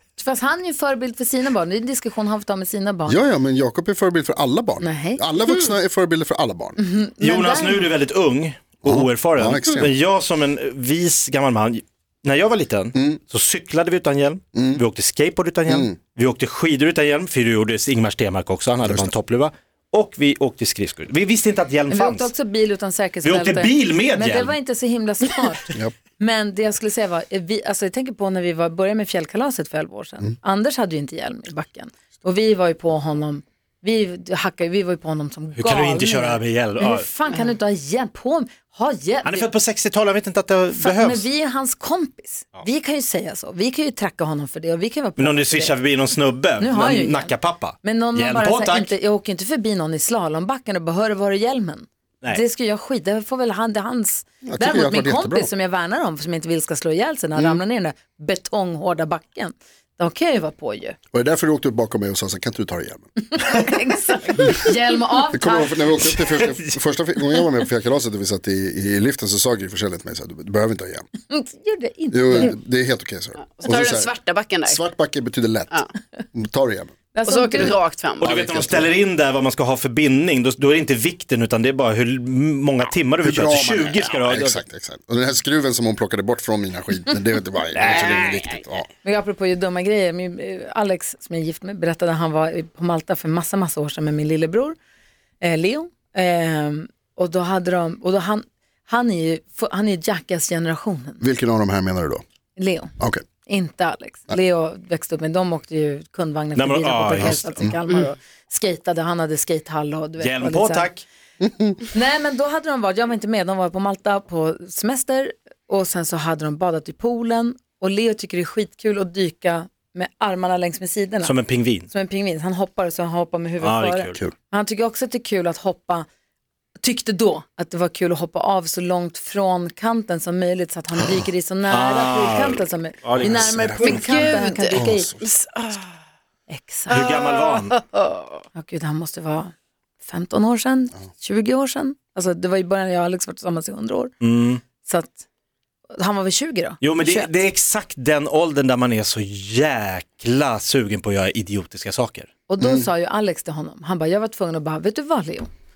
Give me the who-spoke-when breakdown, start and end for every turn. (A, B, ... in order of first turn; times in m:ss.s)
0:00.2-0:03.2 A
0:03.1-0:06.8 B
0:04.8-0:05.2 A
0:06.8-0:07.9 A
0:07.2-0:22.3 C
0:08.8-0:09.9 B
0:13.0-0:13.2 B
0:14.6-0:14.8 B
0:15.7-0:16.0 B
0:18.8-0:19.1 B
0:21.9-0:39.5 A
0:23.2-0:24.5 C
0:35.6-0:37.1 C
0:39.2-0:41.3 C
0:40.8-0:45.8 A
0:45.2-0:48.9 C
0:46.6-1:01.0 A
0:54.5-0:55.5 B
1:01.1-1:03.1 B
1:03.3-1:06.0 A
1:05.3-1:11.1 B
1:06.1-1:06.4 C
1:11.3-1:12.6 A
1:12.1-1:16.9 B
1:13.4-1:14.8 D
1:17.1-1:17.8 A
1:17.3-1:18.5 D
1:18.2-1:18.9 B
1:18.2-1:24.6 C
1:23.2-1:28.9 B
1:27.8-1:28.4 C
1:29.0-1:34.8 A
1:35.4-1:41.2 A
1:41.2-1:42.2 B
1:42.6-1:42.9 A
1:43.0-1:43.2 B
1:43.4-1:50.9 A
1:46.6-1:47.7 C
1:47.2-1:47.8 B
1:50.2-1:51.0 C
1:51.4-1:51.8 B
1:51.9-2:01.3 A
2:01.2-2:01.9 C
2:01.9-2:06.1 A
2:03.6-2:04.3 C
2:06.8-2:15.1 A
2:11.7-2:13.6 C
2:13.2-2:15.2 B
2:13.8-2:16.0 D
2:16.5-2:17.0 A
2:16.9-2:18.4 D
2:16.9-2:17.8 C
2:18.5-2:19.5 A
2:20.0-2:24.1 A
2:24.2-2:24.6 C
2:24.8-2:25.2 A
2:26.0-2:27.3 A
2:26.8-2:32.3 C
2:32.5-2:35.5 A
2:32.6-2:32.9 B